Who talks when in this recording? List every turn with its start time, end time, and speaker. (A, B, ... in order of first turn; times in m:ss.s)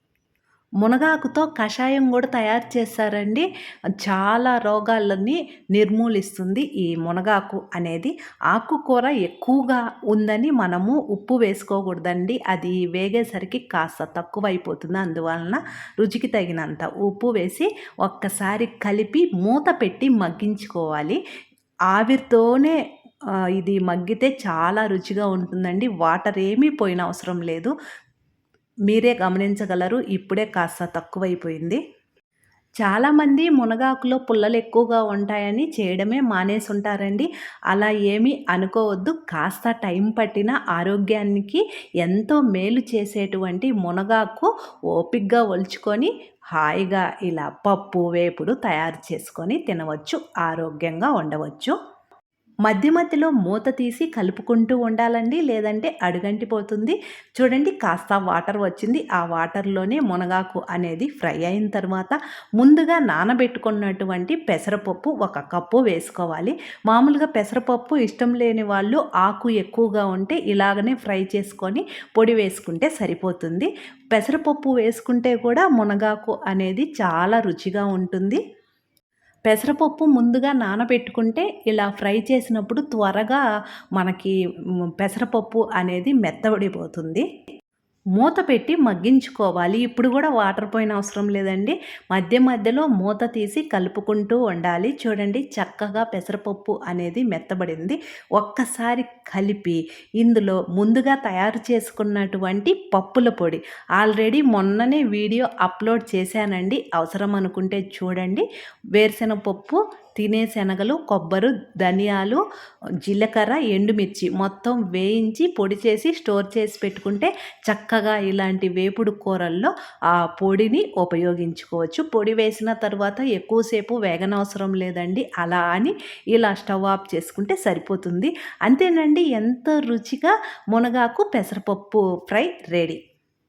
0:00.8-0:21.2 A
0:21.9-0:22.8 A
0:23.6-0:27.7 A
0:28.9-0:31.8 A
0:32.8-0:51.8 A
0:52.7-1:18.4 A
1:19.5-1:23.4 A
1:24.0-1:24.3 A
1:25.0-1:27.3 A
1:28.2-1:48.4 A
1:49.0-1:52.4 A
1:53.0-2:13.0 A